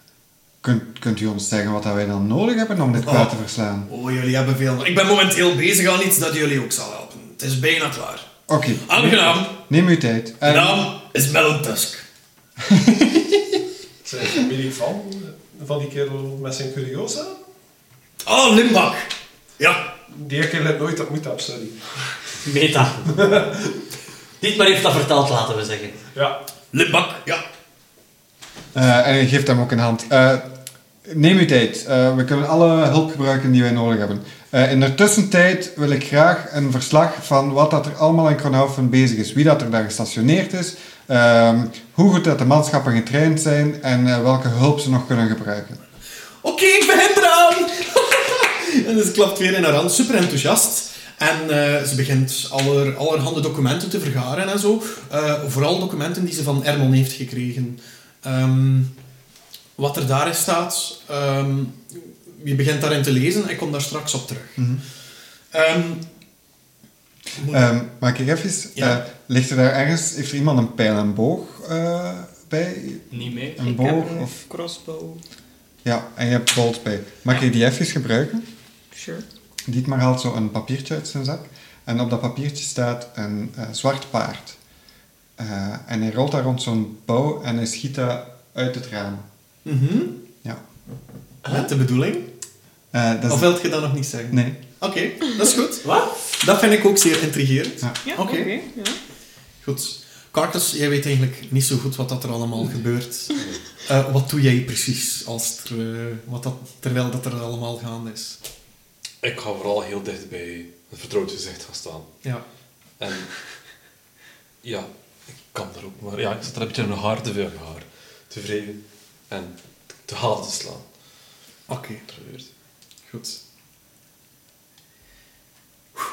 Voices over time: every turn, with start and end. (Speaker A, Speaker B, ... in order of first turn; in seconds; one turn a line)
Speaker A: 0.6-3.9
Speaker B: 3.0-3.3
Speaker B: 3.9-8.3
Speaker A: 8.5-10.9
Speaker B: 8.9-9.6
Speaker B: 10.4-12.1
Speaker A: 12.7-13.0
Speaker C: 14.0-17.4
Speaker B: 18.2-19.9
Speaker C: 20.1-21.8
Speaker D: 22.4-23.2
Speaker C: 23.1-23.8
Speaker D: 24.4-26.0
Speaker B: 26.7-27.4
Speaker A: 28.7-30.5
Speaker A: 31.1-45.8
Speaker B: 46.4-58.9
Speaker B: 59.8-64.6
Speaker B: 65.5-66.0
Speaker B: 67.4-67.7
Speaker A: 67.5-74.3
Speaker B: 68.8-69.0
Speaker D: 73.1-73.9
Speaker E: 73.6-75.2
Speaker A: 75.8-78.5
Speaker E: 78.9-79.2
Speaker A: 79.7-84.6
Speaker A: 85.4-89.3
Speaker B: 89.7-90.2
Speaker B: 91.5-92.3
Speaker A: 92.9-93.5
Speaker B: 93.3-98.6
Speaker A: 94.3-94.6
Speaker D: 95.8-96.1
Speaker E: 98.0-99.0
Speaker B: 99.6-108.4
Speaker F: 109.2-112.1
Speaker F: 113.0-113.4
Speaker F: 114.6-114.9
Speaker F: 115.5-118.8
Speaker F: 119.3-120.8
Speaker B: 121.7-122.1
Speaker F: 122.1-122.5
Speaker B: 123.1-123.4